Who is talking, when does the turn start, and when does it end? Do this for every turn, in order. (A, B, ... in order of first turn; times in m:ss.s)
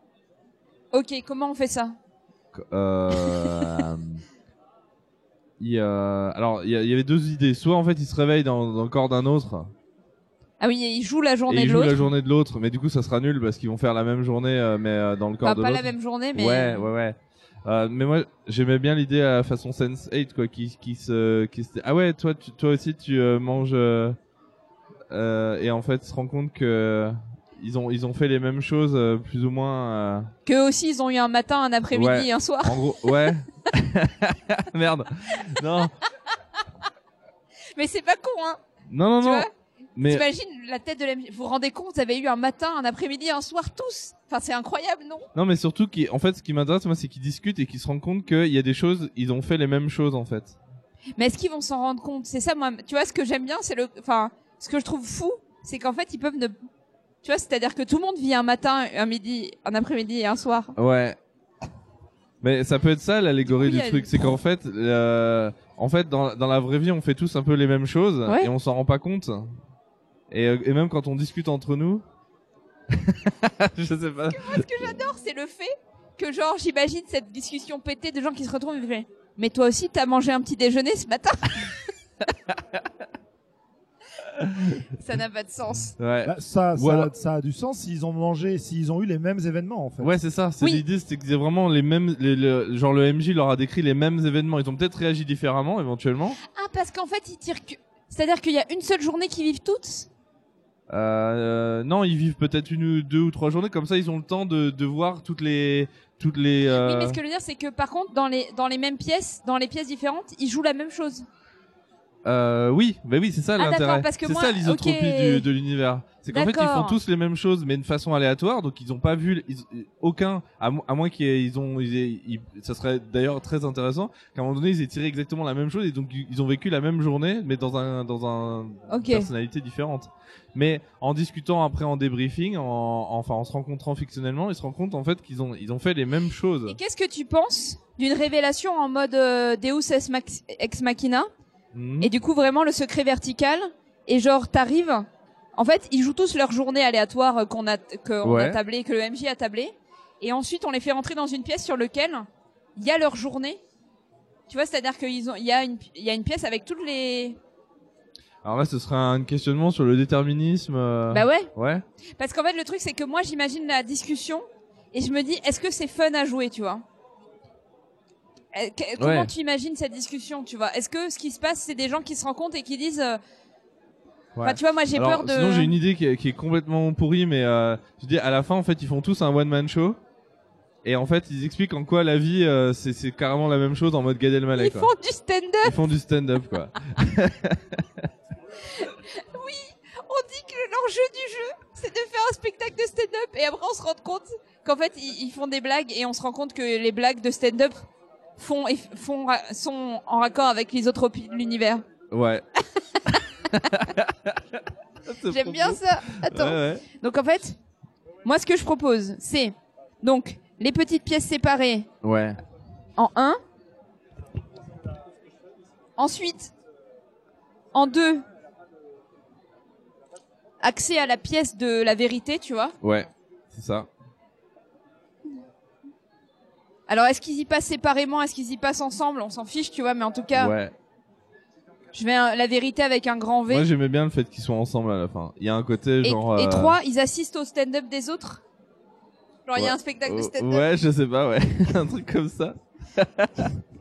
0:00.9-0:02.0 A
0:02.5-0:04.2 B
0:03.2-0:03.8 A
0:05.6-0:09.7 B
0:10.6-0:12.1 A
0:11.5-0:24.2 B
0:15.4-0:16.9 A
0:25.1-0:30.3 B
0:30.5-0:33.3 A
0:31.9-0:35.9 B
0:37.8-0:38.6 A
0:38.9-0:40.2 B
0:39.2-0:39.5 A
0:40.0-0:45.3 A
0:45.4-0:50.6 B
0:51.2-0:56.6 A
0:57.2-1:00.7 A
1:00.8-1:01.2 B
1:02.4-1:09.5 B
1:03.5-1:04.4 A
1:08.3-1:08.5 A
1:10.3-1:12.0 B
1:12.9-1:15.0 B
1:14.3-1:21.8 A
1:24.3-1:24.8 B
1:24.9-1:26.0 A
1:26.0-1:27.1 B
1:26.2-1:30.2 C
1:30.0-1:36.4 B
1:36.5-1:40.1 A
1:40.9-1:47.2 B
1:46.8-1:51.3 A
1:52.2-2:16.8 B
1:53.6-1:55.5 A
1:56.3-1:57.0 A
2:08.9-2:09.3 A
2:16.7-2:21.3 A
2:21.7-2:22.1 B
2:22.0-2:33.6 A
2:28.2-2:28.6 B
2:34.5-2:37.4 A
2:38.4-2:41.8 B
2:41.1-2:41.5 A
2:42.2-2:46.8 A
2:48.5-2:53.2 A
2:49.0-2:49.3 B
2:54.4-3:00.0 B
2:54.4-2:55.8 A
3:00.8-3:04.9 B
3:04.6-3:05.8 A
3:05.6-3:08.1 B
3:08.6-3:17.9 A
3:18.4-3:21.8 A
3:22.1-3:22.4 B
3:22.8-3:23.6 A
3:23.6-3:26.8 B
3:25.3-3:27.6 A
3:28.2-3:31.9 A
3:32.0-3:32.4 B
3:33.0-3:33.4 A
3:36.0-3:36.5 A
3:37.7-3:38.2 A
3:40.6-3:42.8 A
3:42.8-3:43.9 B
3:46.9-3:50.5 A
3:50.3-3:50.7 B
3:51.9-3:53.7 A
3:53.5-3:56.8 B
3:56.0-3:58.4 A
3:59.5-4:00.7 A
3:59.6-4:03.6 B